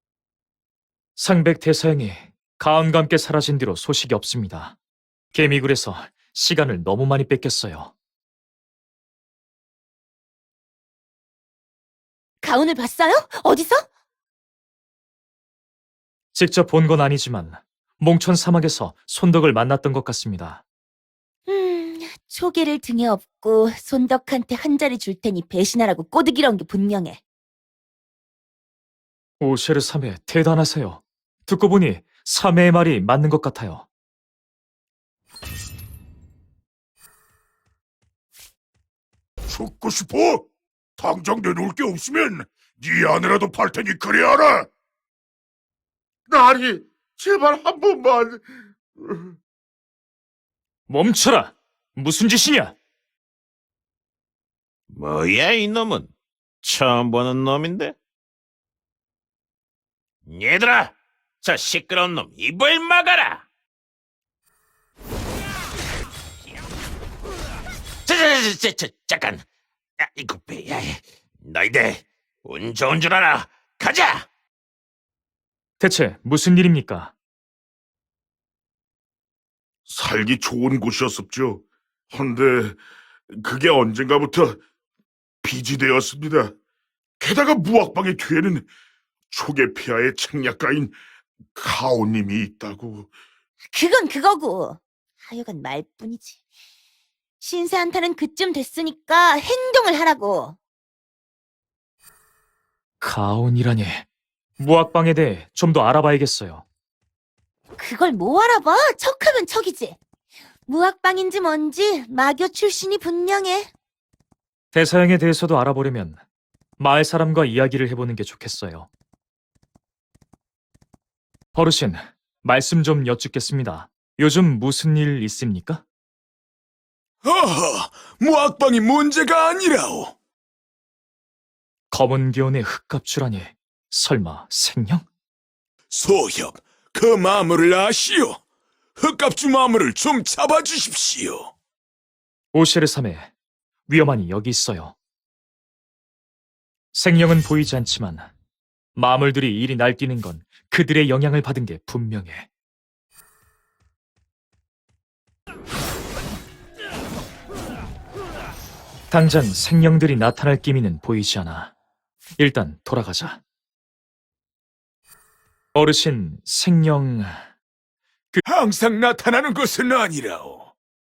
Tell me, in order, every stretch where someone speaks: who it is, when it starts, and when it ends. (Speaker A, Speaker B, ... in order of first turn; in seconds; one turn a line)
Speaker A: 1.2-4.8
Speaker A: 5.3-7.9
Speaker B: 12.4-13.8
Speaker A: 16.3-20.6
Speaker B: 21.5-27.2
Speaker A: 29.4-33.9
Speaker C: 39.5-40.5
Speaker C: 41.0-44.7
Speaker C: 46.3-48.4
Speaker A: 50.9-52.8
Speaker D: 54.9-56.1
Speaker D: 56.6-58.0
Speaker D: 60.2-63.4
Speaker D: 68.0-69.4
Speaker D: 70.0-74.3
Speaker A: 75.8-77.1
Speaker C: 79.9-82.8
Speaker C: 83.3-84.6
Speaker C: 85.4-86.5
Speaker C: 87.2-88.7
Speaker C: 89.3-90.9
Speaker C: 91.5-93.1
Speaker B: 93.7-96.4
Speaker B: 97.4-100.5
Speaker A: 103.0-104.0
Speaker A: 104.6-106.6
Speaker B: 107.8-110.0
Speaker B: 110.7-113.7
Speaker A: 114.7-116.2
Speaker A: 116.8-118.9
Speaker A: 121.5-125.8
Speaker E: 127.2-130.1
Speaker A: 131.9-135.1
Speaker E: 135.9-138.4
Speaker E: 139.0-141.5
Speaker A: 142.5-143.3
Speaker A: 143.9-144.9
Speaker A: 146.9-148.3
Speaker A: 148.9-152.5
Speaker A: 159.1-161.7
Speaker A: 162.4-163.4
Speaker A: 165.7-167.4
Speaker E: 168.4-170.7